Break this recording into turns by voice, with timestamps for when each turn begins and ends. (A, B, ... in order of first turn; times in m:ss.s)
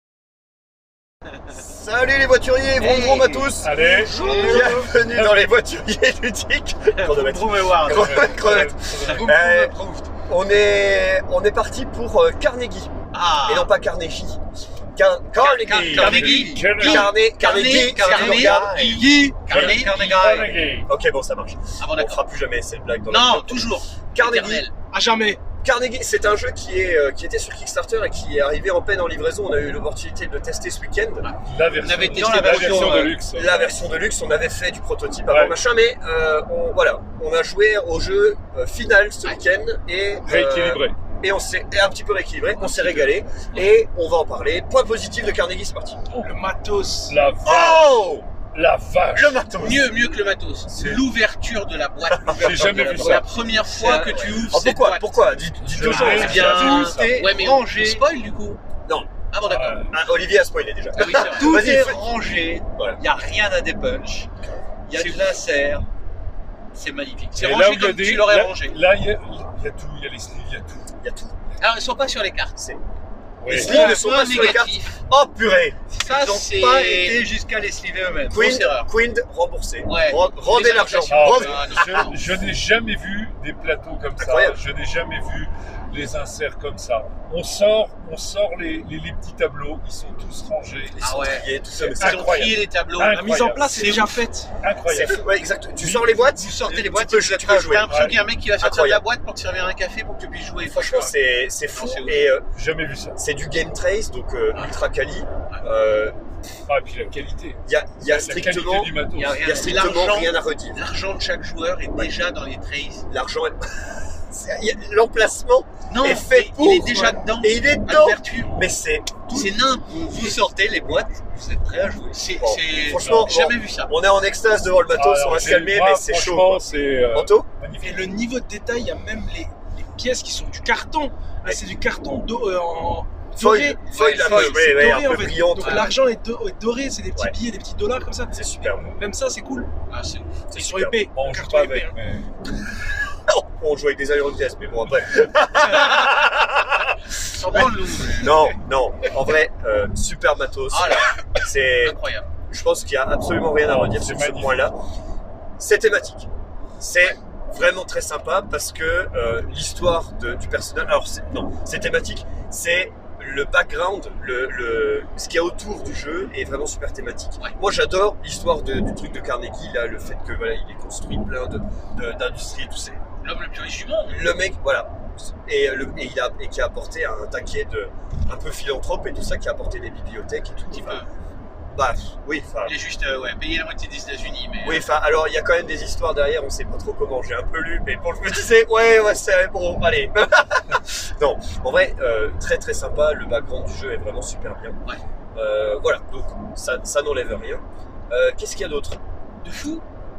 0:01.5-0:03.8 A
0:02.8-0:03.5 B
0:03.5-0:05.4 C
0:03.8-0:04.8 D
0:03.8-0:04.8 E
0:04.3-0:14.4 A
0:07.0-0:10.1 E
0:07.8-0:09.4 C
0:13.1-0:13.7 B
0:14.9-0:19.0 A
0:15.4-0:20.2 B
0:15.6-0:16.8 E
0:16.0-0:17.1 C
0:17.5-0:20.6 E
0:19.5-0:20.9 C
0:20.9-0:24.6 A
0:21.8-0:22.2 B
0:23.1-0:24.7 B
0:24.9-0:25.4 D
0:25.6-0:31.3 A
0:31.2-0:33.2 B
0:31.4-0:33.7 C
0:32.1-0:33.1 E
0:33.2-0:46.0 A
0:35.3-0:35.6 C
0:40.2-0:41.0 C
0:42.6-0:43.7 B
0:46.2-0:47.2 D
0:47.0-0:49.5 C
0:47.4-0:48.3 A
0:49.1-0:49.9 A
0:49.5-0:58.6 B
0:50.7-0:51.1 C
0:52.1-0:53.2 A
0:52.4-0:53.3 C
0:53.0-0:54.4 E
0:54.1-0:56.8 A
0:55.6-0:57.3 C
0:55.9-0:58.0 E
0:58.9-0:59.1 A
0:59.3-0:59.9 B
0:59.4-0:59.9 C
0:59.9-1:02.0 A
1:01.0-1:01.7 B
1:01.0-1:04.3 E
1:04.4-1:05.2 A
1:04.9-1:05.9 E
1:06.7-1:07.4 E
1:07.3-1:08.8 B
1:07.4-1:10.9 C
1:11.0-1:11.4 A
1:11.6-1:12.6 B
1:13.4-1:13.8 C
1:13.5-1:15.0 B
1:13.5-1:15.8 A
1:13.6-1:14.6 E
1:15.9-1:18.6 E
1:15.9-1:17.2 B
1:18.3-1:22.1 A
1:18.3-1:18.9 B
1:19.8-1:22.2 B
1:21.1-1:31.3 C
1:24.2-1:24.6 A
1:31.0-1:32.5 A
1:31.0-1:34.2 B
1:31.8-1:33.9 C
1:33.0-1:34.5 D
1:34.6-1:35.2 C
1:34.8-1:37.9 A
1:35.8-1:36.3 C
1:36.2-1:42.3 B
1:36.3-1:37.8 E
1:37.8-1:38.2 C
1:38.6-1:39.0 A
1:40.6-1:42.5 A
1:42.6-1:43.2 C
1:43.1-1:46.2 A
1:46.7-1:49.4 C
1:47.7-1:50.8 A
1:49.1-1:53.1 B
1:49.4-1:50.2 E
1:53.1-1:59.5 A
1:55.9-1:58.6 B
1:59.3-2:01.0 B
2:00.1-2:02.2 E
2:02.1-2:03.9 B
2:02.4-2:07.5 A
2:03.0-2:03.3 C
2:04.9-2:08.2 C
2:07.8-2:19.7 D
2:13.3-2:15.9 A
2:13.9-2:14.7 B
2:15.6-2:15.9 B
2:18.3-2:18.9 A
2:19.9-2:20.4 B
2:20.5-2:21.0 A
2:20.5-2:22.0 D
2:21.1-2:22.3 C
2:23.2-2:34.8 A
2:27.3-2:28.6 B
2:30.7-2:32.3 B
2:33.7-2:34.7 C
2:35.6-2:53.0 A
2:53.2-2:54.4 B
2:54.1-3:01.0 A
3:00.7-3:01.1 B
3:01.7-3:02.8 A
3:02.6-3:04.8 B
3:04.6-3:14.8 A
3:15.3-3:19.0 A
3:19.4-3:19.8 B